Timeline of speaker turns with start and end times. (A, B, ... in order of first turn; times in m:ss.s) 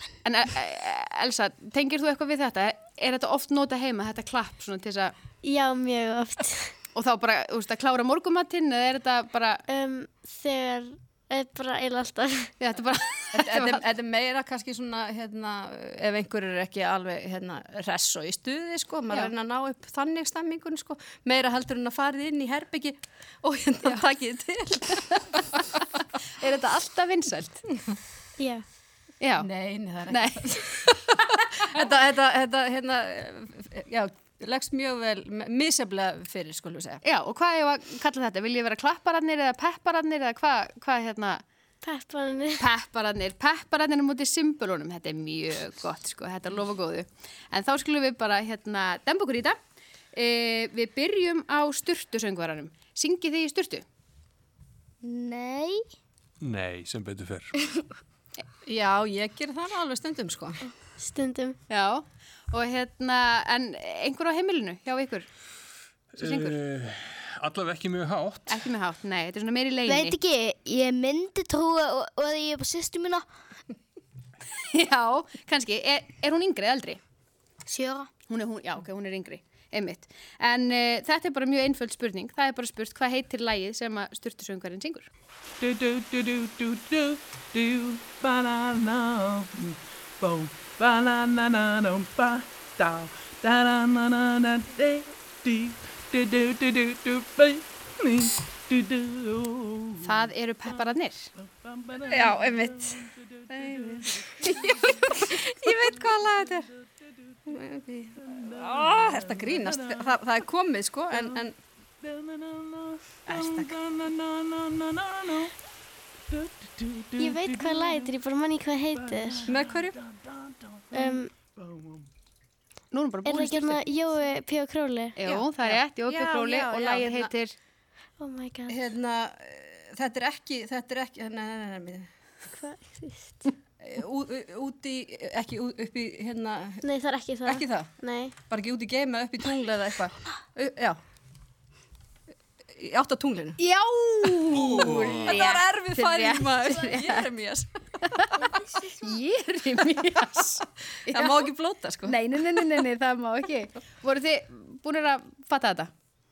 0:00.2-0:05.1 A
0:05.4-0:06.8 B
0:06.9-0:09.6 A
0:09.7-0:12.5 B
0:12.6-0:13.8 A
0:13.3-0:25.8 C
0:26.4-0:27.6 A
0:28.4-0:28.6 B
0:29.2-0:29.5 A
0:29.4-0:37.0 C
0:30.1-0:31.1 A
0:37.0-0:41.4 A
0:41.8-0:42.7 B
0:42.6-0:49.6 A
0:50.1-0:53.8 A
0:55.0-0:55.9 D
0:56.4-0:57.5 E
0:58.7-1:00.7 C
1:01.0-1:01.6 B
1:01.7-1:05.3 A
1:06.2-1:08.6 E
1:06.2-1:06.6 A
1:08.5-1:10.2 A
1:09.9-1:13.3 D
1:14.6-1:17.0 A
1:17.7-1:18.1 D
1:18.3-1:25.1 A
1:25.6-1:40.0 F
1:40.0-1:41.3 A
1:41.7-1:42.8 F
1:42.1-1:46.7 C
1:47.5-1:51.6 C
1:48.3-1:50.0 F
1:52.1-1:55.5 F
1:53.3-1:53.8 A
1:56.3-1:58.1 F
1:57.2-1:59.5 B
1:59.1-2:00.2 F
1:59.5-2:00.0 C
2:00.9-2:01.3 B
2:02.9-2:03.9 A
2:03.2-2:05.2 B
2:05.2-2:07.5 A
2:05.2-2:07.3 C
2:08.2-2:08.9 B
2:08.7-2:12.1 C
2:12.5-2:13.5 B
2:13.8-2:16.9 C
2:16.8-2:18.3 B
2:17.4-2:18.0 C
2:18.5-2:21.0 C
2:22.8-2:23.6 C
2:23.6-2:27.2 A
2:24.5-2:28.5 C
2:28.2-2:31.5 A
2:31.0-2:32.6 C
2:32.0-2:35.9 A